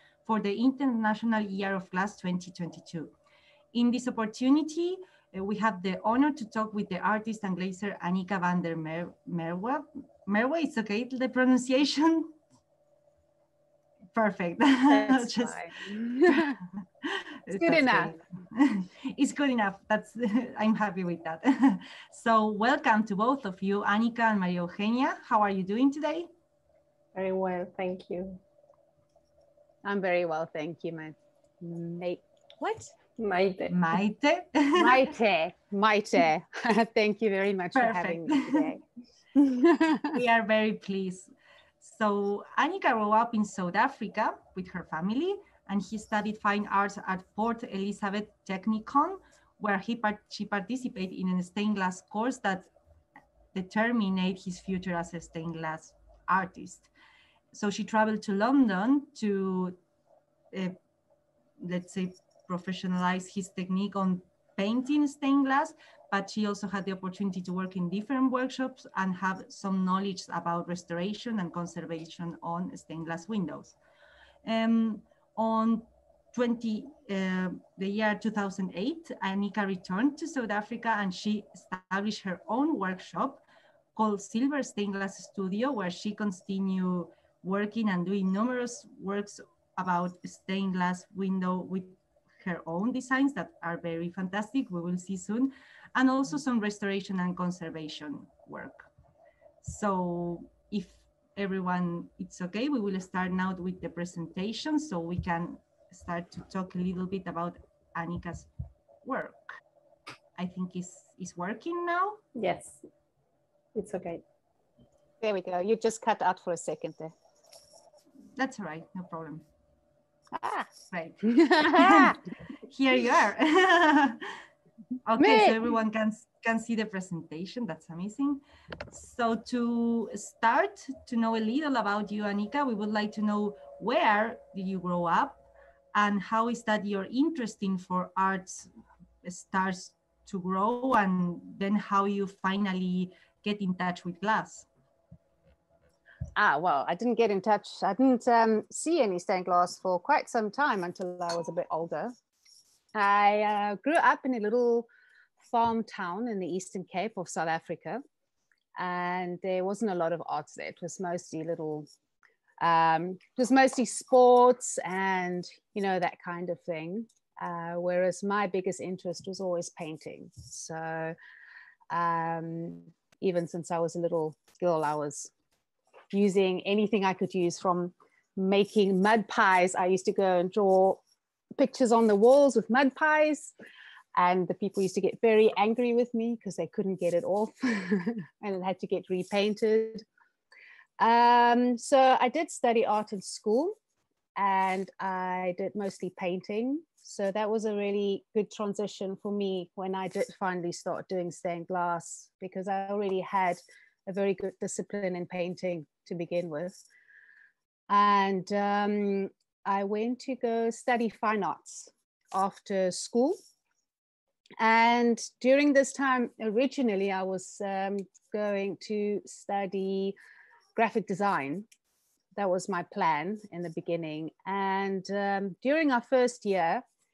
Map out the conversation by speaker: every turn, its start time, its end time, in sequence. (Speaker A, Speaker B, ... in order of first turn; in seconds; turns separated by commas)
Speaker A: 0.2-3.1, Speaker A: 3.7-12.3, Speaker A: 14.1-15.6, Speaker B: 14.9-16.6, Speaker A: 16.4-26.3, Speaker B: 17.5-18.2, Speaker C: 27.1-28.4, Speaker B: 29.8-32.9, Speaker C: 33.2-33.8, Speaker A: 33.7-35.1, Speaker B: 34.8-38.8, Speaker A: 37.7-38.7, Speaker B: 39.3-40.2, Speaker A: 40.1-41.3, Speaker A: 41.8-52.7, Speaker A: 53.5-56.9, Speaker A: 57.5-59.8, Speaker A: 60.5-60.8, Speaker A: 61.6-73.8, Speaker A: 74.4-83.4, Speaker A: 84.0-98.9, Speaker A: 99.6-108.5, Speaker A: 109.0-109.5, Speaker A: 110.4-112.2, Speaker C: 112.3-112.8, Speaker C: 113.7-114.2, Speaker B: 115.2-117.1, Speaker A: 118.3-119.4, Speaker B: 120.3-120.7, Speaker A: 120.9-124.3, Speaker B: 121.2-122.2, Speaker A: 125.0-138.7, Speaker B: 125.2-125.6, Speaker A: 139.2-144.7, Speaker B: 146.3-152.1, Speaker B: 152.9-154.9, Speaker B: 155.4-158.0, Speaker B: 158.8-161.9, Speaker B: 162.6-171.1, Speaker B: 171.9-175.3, Speaker B: 176.1-181.0, Speaker B: 181.6-183.5, Speaker B: 184.1-190.0, Speaker B: 191.0-193.8, Speaker B: 194.3-206.8, Speaker B: 207.9-213.4, Speaker B: 214.6-220.1, Speaker B: 220.8-221.7, Speaker B: 222.3-226.8